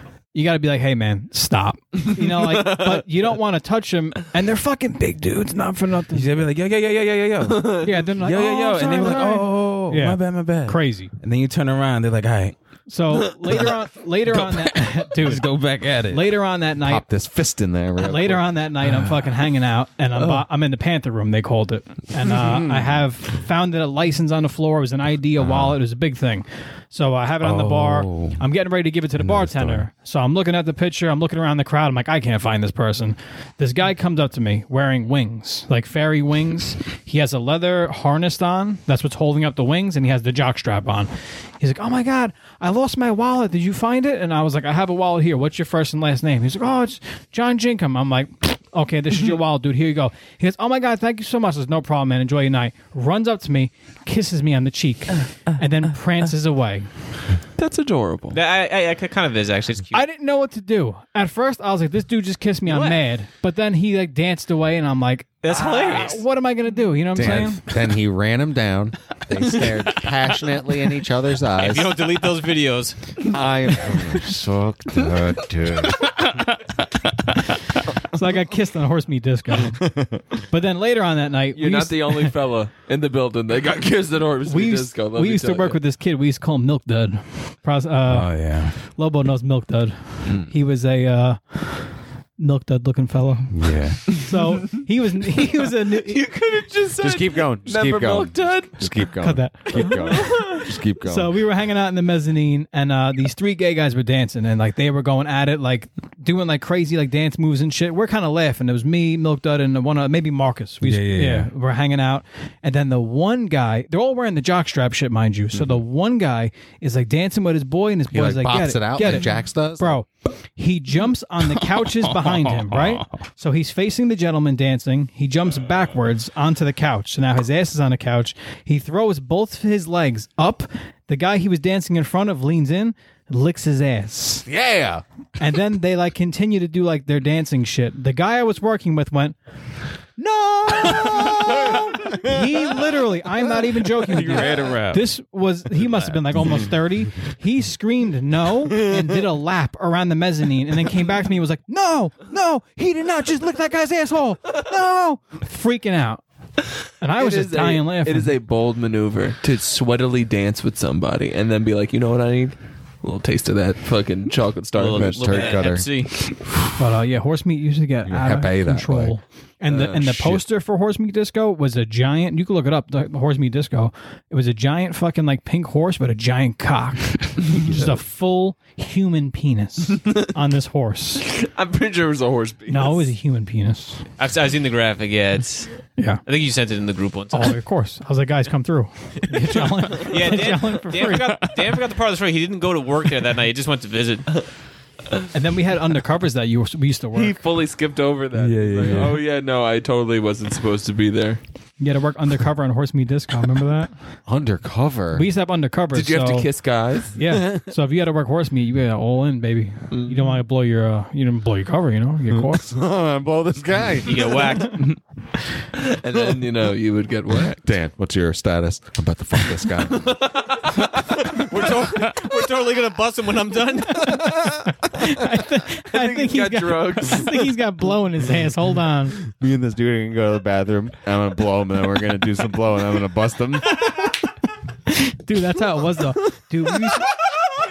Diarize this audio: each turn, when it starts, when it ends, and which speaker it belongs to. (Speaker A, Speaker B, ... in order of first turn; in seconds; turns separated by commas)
Speaker A: 0.3-6.4, Speaker B: 2.4-3.0, Speaker C: 6.1-12.6, Speaker B: 7.5-7.8, Speaker A: 7.8-11.1, Speaker A: 12.9-17.0, Speaker C: 14.3-16.3, Speaker D: 16.8-18.4, Speaker A: 18.0-56.9, Speaker C: 27.4-28.4, Speaker C: 29.2-29.9, Speaker B: 57.6-58.4, Speaker E: 58.3-60.0, Speaker A: 59.9-67.6, Speaker E: 62.7-63.0, Speaker E: 65.4-66.2, Speaker D: 67.1-72.0, Speaker E: 71.6-73.0, Speaker D: 73.2-76.3, Speaker A: 78.0-79.9, Speaker D: 79.9-80.2, Speaker A: 80.5-82.3, Speaker B: 81.5-85.8, Speaker A: 84.4-96.2, Speaker C: 88.1-88.7, Speaker C: 93.5-94.0, Speaker B: 96.0-99.1, Speaker D: 97.0-101.3, Speaker A: 99.2-134.4, Speaker B: 99.7-100.6, Speaker C: 110.8-111.5, Speaker D: 118.1-120.0, Speaker C: 122.0-123.0, Speaker D: 134.4-135.0, Speaker A: 135.4-139.4, Speaker A: 140.1-156.2, Speaker D: 141.7-142.4, Speaker C: 144.1-145.0, Speaker A: 157.0-158.3, Speaker B: 157.2-165.7, Speaker E: 164.8-166.2, Speaker D: 164.8-165.9, Speaker A: 166.8-181.3, Speaker D: 168.1-169.1, Speaker B: 169.7-170.4, Speaker B: 181.2-183.1, Speaker A: 182.7-184.0, Speaker E: 184.2-187.6, Speaker A: 186.0-186.2, Speaker A: 187.3-191.4, Speaker E: 190.0-194.3, Speaker A: 195.3-197.4, Speaker B: 197.1-201.4, Speaker C: 198.3-199.2, Speaker A: 201.8-203.9, Speaker D: 204.3-205.2, Speaker A: 205.1-206.5, Speaker B: 205.9-207.2, Speaker A: 207.1-212.7, Speaker B: 209.9-210.2, Speaker D: 212.5-214.4, Speaker E: 214.0-214.9, Speaker A: 214.5-214.8, Speaker B: 215.8-217.7, Speaker D: 217.6-220.3, Speaker E: 221.3-224.4, Speaker A: 223.8-229.2, Speaker B: 225.9-227.5, Speaker D: 229.3-233.8, Speaker A: 233.7-234.1, Speaker A: 234.9-237.1